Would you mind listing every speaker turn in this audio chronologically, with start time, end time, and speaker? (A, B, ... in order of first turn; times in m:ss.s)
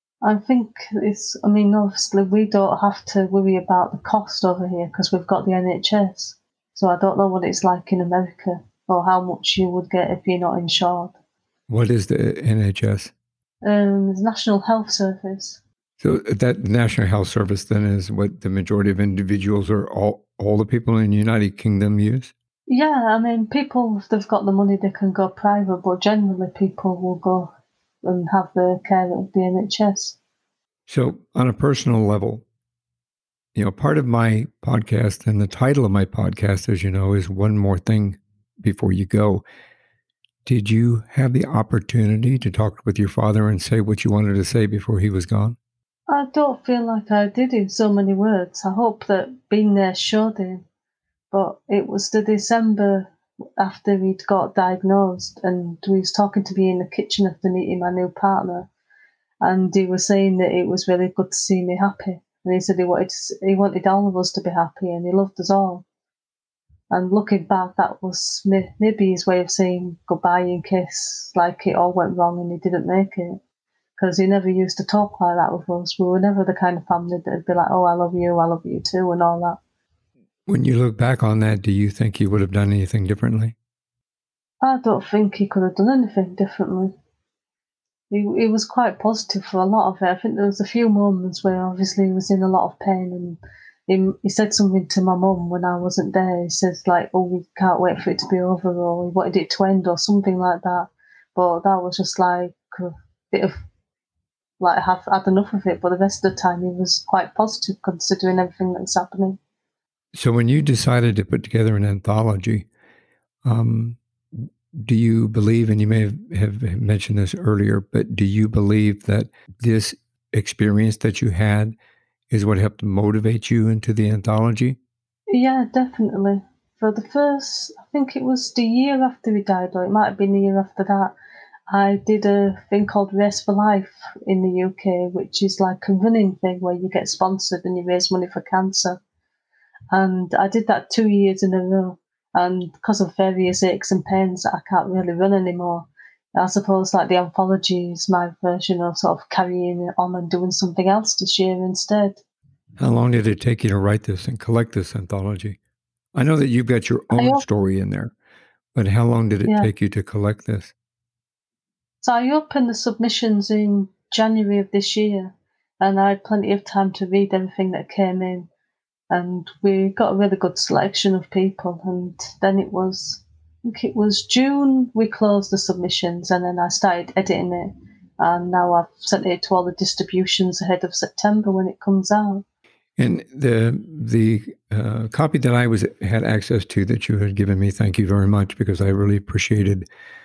0:00.2-0:11.1 A
0:11.7-0:13.1 B
0:13.6-0:15.6 A
0:16.0-0:22.3 B
0:22.7-0:30.2 A
0:30.9-0:32.4 B
0:33.6-0:39.4 B
0:40.4-0:45.6 B
0:46.1-0:50.6 A
0:51.3-0:58.7 A
0:59.4-1:05.8 A
1:06.9-1:13.4 A
1:14.0-1:19.6 A
1:20.5-1:23.6 B
1:24.6-1:26.9 A
1:28.1-1:43.6 A
1:44.6-1:49.4 A
1:50.2-1:52.7 B
1:53.4-2:01.8 B
2:02.3-2:04.8 B
2:05.3-2:11.1 A
2:11.7-2:19.0 A
2:19.9-2:32.2 A
2:32.8-2:35.6 B
2:36.2-2:38.1 B
2:37.1-2:37.4 A
2:38.8-2:40.7 B
2:42.0-2:48.5 A
2:49.1-3:02.4 A
3:03.0-3:09.8 B